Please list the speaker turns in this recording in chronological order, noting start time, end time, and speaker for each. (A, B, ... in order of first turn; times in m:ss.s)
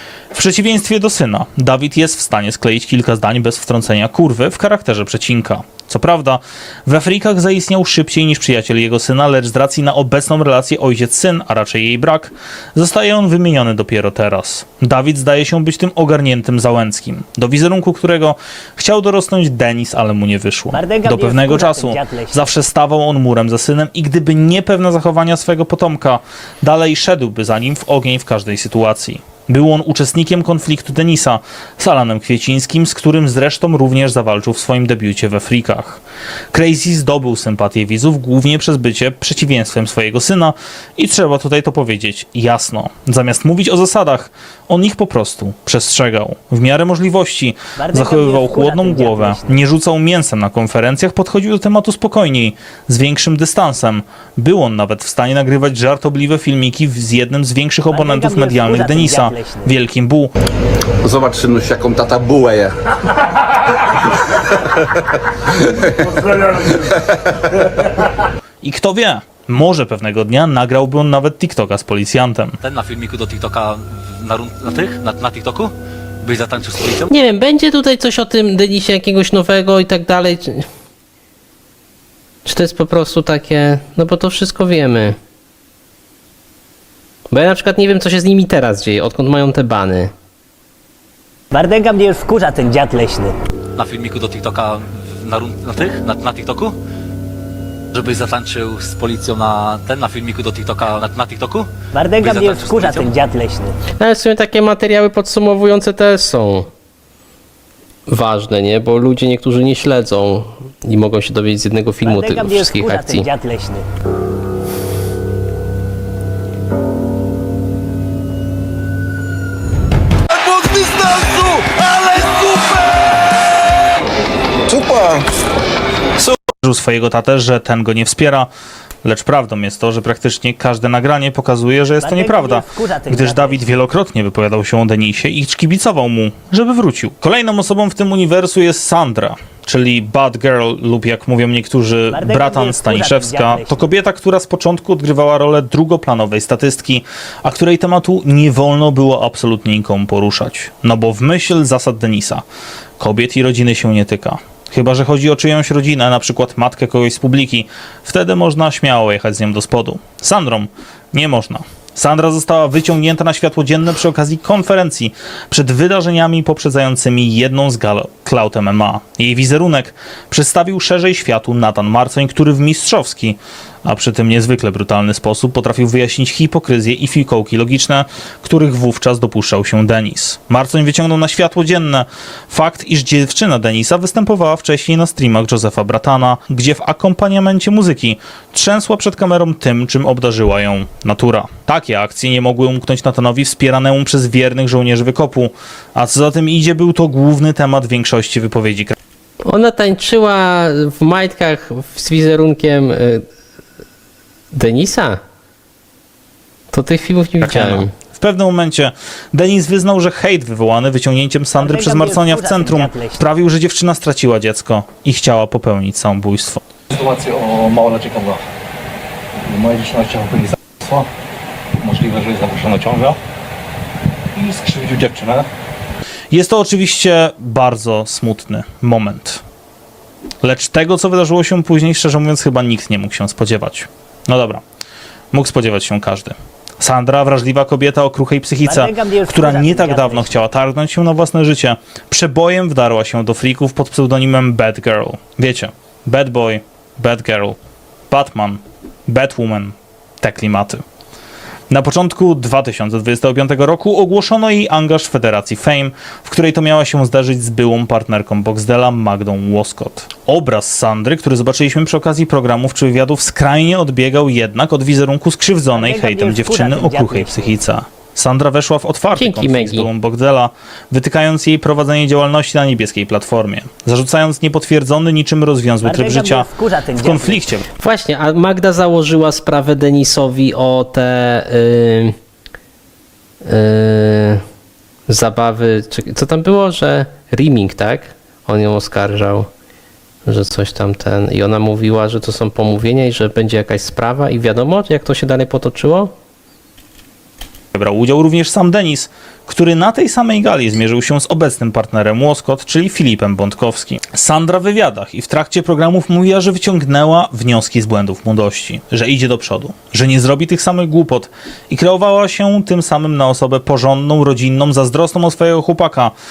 0:00.3-0:36.0 A
0:20.7-0:22.4 B
0:36.5-1:00.3 A
0:47.8-0:49.6 B
0:57.9-0:59.7 B
1:01.0-1:02.7 C
1:06.4-1:06.7 C
1:08.6-1:12.6 A
1:12.6-1:17.1 D
1:17.1-1:20.6 E
1:22.4-1:25.2 E
1:27.3-1:30.1 E
1:31.5-1:33.3 B
1:33.8-1:36.8 D
1:37.9-1:43.1 D
1:41.9-1:43.8 B
1:44.0-1:46.7 E
1:48.1-1:53.3 E
1:52.0-1:53.8 B
2:04.7-2:05.2 C
2:06.2-2:08.5 A
2:09.0-2:32.4 A
2:12.0-2:13.7 B
2:22.1-2:23.9 B
2:33.0-3:18.9 A
3:19.4-3:23.2 E
3:24.5-3:25.2 E
3:26.7-3:27.9 E
3:27.4-3:36.6 A
3:31.6-3:33.2 B
3:36.9-3:38.4 F
3:39.4-3:41.1 F
3:41.8-3:43.2 F
3:44.4-3:45.5 F
3:46.3-3:49.4 A
3:50.4-3:54.6 A
3:55.3-4:07.6 A
3:58.6-4:00.4 B
4:08.1-4:10.8 A
4:11.7-4:37.6 A
4:25.7-4:27.5 B
4:29.1-4:29.9 E
4:35.8-4:37.4 B
4:37.8-4:42.1 E
4:43.4-4:44.4 E
4:45.1-4:49.5 E
4:50.2-4:56.1 E
4:57.7-5:16.1 A